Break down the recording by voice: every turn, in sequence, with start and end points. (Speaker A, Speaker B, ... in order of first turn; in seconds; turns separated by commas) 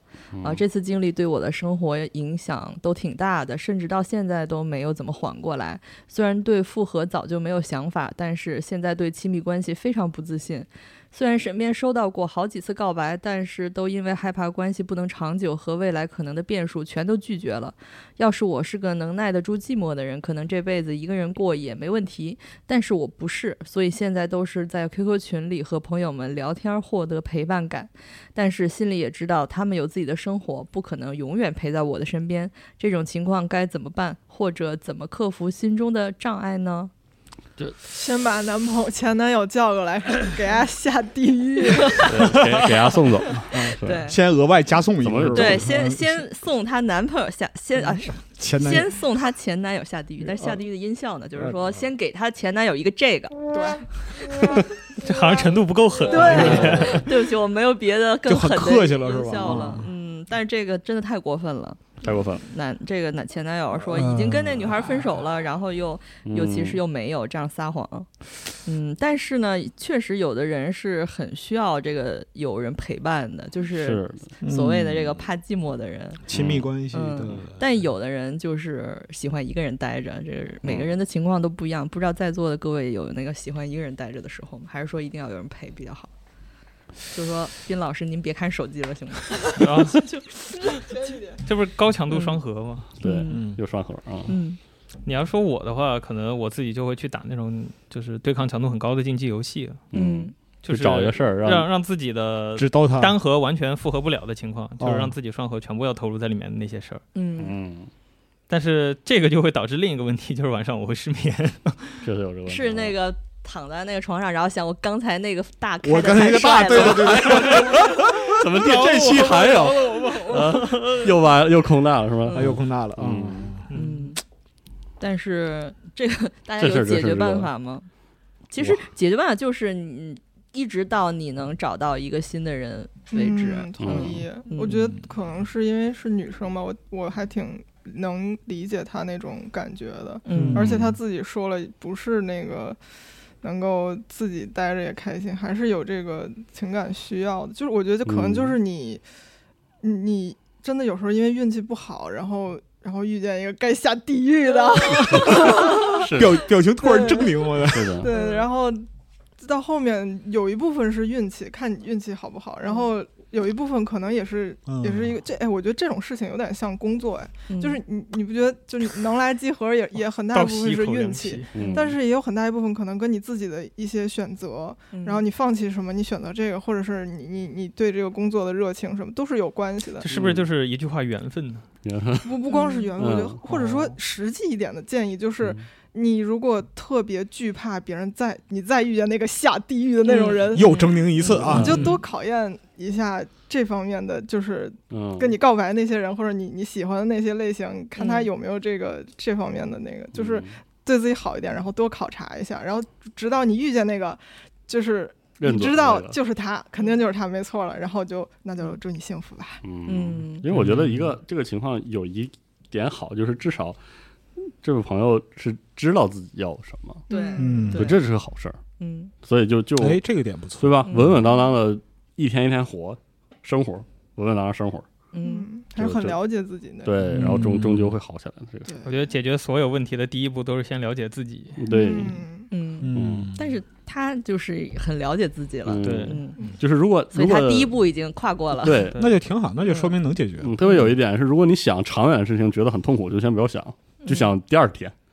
Speaker A: 0.3-0.6, Speaker B: 0.4-36.9, Speaker C: 37.9-42.2, Speaker B: 41.8-42.1, Speaker A: 42.0-44.1, Speaker D: 43.5-46.2, Speaker B: 43.8-44.2, Speaker A: 45.0-45.7, Speaker B: 45.3-53.5, Speaker D: 48.2-48.9, Speaker C: 53.5-53.9, Speaker E: 55.0-57.1, Speaker B: 56.1-68.1, Speaker C: 56.1-57.0, Speaker A: 56.3-57.0, Speaker D: 58.3-59.9, Speaker A: 62.0-62.4, Speaker D: 63.9-64.7, Speaker A: 66.2-66.8, Speaker B: 68.7-76.2, Speaker A: 73.7-74.3, Speaker D: 74.4-75.0, Speaker D: 76.3-77.6, Speaker A: 76.3-76.7, Speaker B: 76.9-86.1, Speaker A: 80.7-80.9, Speaker B: 87.1-90.8, Speaker E: 89.6-90.0, Speaker C: 90.8-91.4, Speaker E: 91.5-92.9, Speaker B: 92.1-92.4, Speaker A: 93.0-94.3, Speaker B: 93.0-93.5, Speaker D: 93.3-93.6, Speaker B: 94.3-94.6, Speaker E: 95.0-99.8, Speaker A: 99.9-101.7, Speaker B: 99.9-100.3, Speaker E: 100.6-107.0, Speaker D: 102.6-103.2, Speaker D: 104.8-105.1, Speaker B: 107.2-107.6, Speaker A: 107.4-107.9, Speaker E: 108.5-112.0, Speaker A: 112.0-113.0, Speaker B: 112.5-117.7, Speaker D: 115.8-118.4, Speaker A: 116.7-123.6, Speaker E: 118.7-121.0, Speaker B: 122.2-122.6, Speaker D: 122.3-123.7, Speaker E: 123.7-124.1, Speaker B: 123.7-124.2, Speaker B: 125.0-127.9, Speaker A: 126.6-127.5, Speaker B: 128.5-134.8, Speaker C: 133.1-142.8, Speaker A: 133.8-134.2, Speaker D: 134.7-135.0, Speaker B: 140.2-140.7, Speaker D: 140.3-140.8, Speaker A: 140.6-140.9, Speaker C: 143.4-149.0, Speaker A: 148.1-148.6, Speaker C: 149.8-156.1, Speaker B: 154.8-155.7, Speaker A: 155.1-156.5, Speaker D: 155.3-158.0, Speaker C: 156.8-158.9, Speaker A: 157.7-158.1, Speaker B: 158.1-158.4, Speaker C: 159.4-180.1, Speaker D: 164.7-165.2, Speaker B: 167.5-167.8, Speaker E: 170.3-171.7, Speaker A: 171.5-171.9, Speaker B: 171.6-171.9, Speaker B: 174.9-175.2, Speaker E: 180.0-181.7, Speaker A: 180.1-180.5, Speaker A: 181.8-182.4, Speaker C: 182.2-209.6, Speaker B: 182.5-182.9, Speaker A: 183.0-183.4, Speaker E: 183.5-183.9, Speaker B: 190.0-191.7, Speaker D: 190.5-191.9, Speaker A: 191.4-191.7, Speaker A: 194.9-195.4, Speaker B: 198.0-198.3, Speaker A: 200.1-200.6, Speaker A: 205.4-206.2, Speaker A: 209.6-213.8, Speaker B: 209.9-210.5, Speaker D: 210.5-211.1, Speaker A: 214.6-217.0, Speaker C: 217.1-217.8, Speaker B: 217.1-218.0, Speaker D: 217.4-217.9, Speaker A: 217.8-218.6, Speaker B: 218.8-219.1, Speaker A: 219.2-220.0, Speaker D: 219.8-220.8, Speaker A: 220.6-224.9, Speaker B: 220.9-221.3, Speaker B: 225.1-225.5, Speaker C: 225.2-227.0, Speaker A: 225.8-226.2, Speaker A: 226.8-228.8, Speaker D: 227.0-227.9, Speaker C: 228.7-228.9, Speaker E: 228.8-231.6, Speaker A: 231.6-232.2, Speaker C: 231.7-232.5, Speaker B: 232.5-236.6, Speaker D: 232.8-233.5, Speaker A: 232.9-233.3, Speaker A: 235.7-237.7, Speaker E: 235.8-236.2, Speaker B: 237.1-238.9, Speaker A: 238.6-239.0, Speaker D: 239.0-240.6, Speaker B: 239.6-240.0, Speaker A: 240.4-244.9, Speaker B: 244.0-244.3